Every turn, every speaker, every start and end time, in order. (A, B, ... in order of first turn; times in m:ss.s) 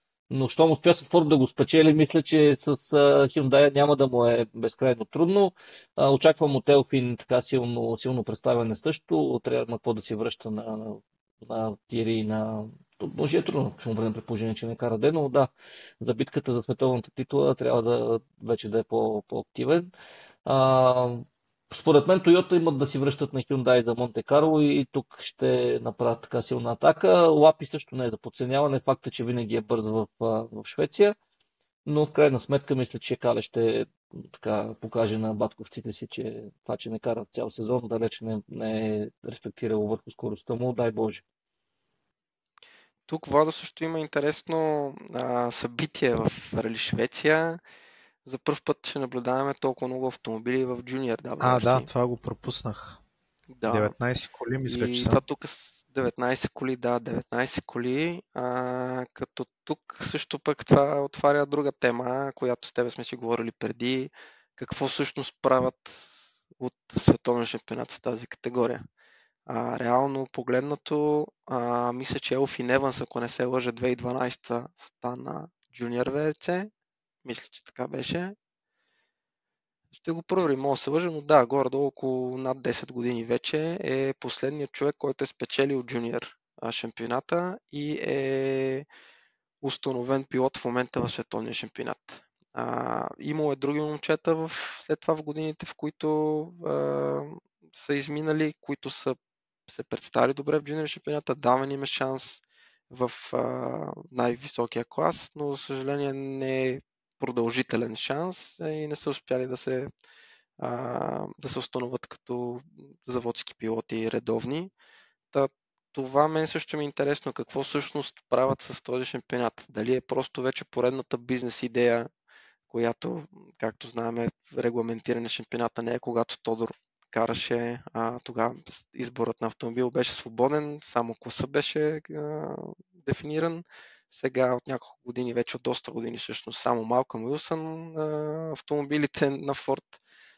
0:00.3-0:19.9 A
0:20.5-0:31.2 A
0:31.9-0:41.2 A
0:43.1-0:47.6 B
0:48.2-0:51.9 B
0:51.4-0:53.0 C
0:53.5-0:54.0 B
0:53.7-0:55.2 C
0:54.6-1:08.8 B
1:09.5-1:16.7 B
1:17.2-1:18.4 B
1:19.9-1:28.9 B
1:29.6-1:39.2 B
1:39.7-1:49.9 B
1:50.6-1:54.7 B
1:55.3-2:02.1 B
2:02.7-2:20.0 B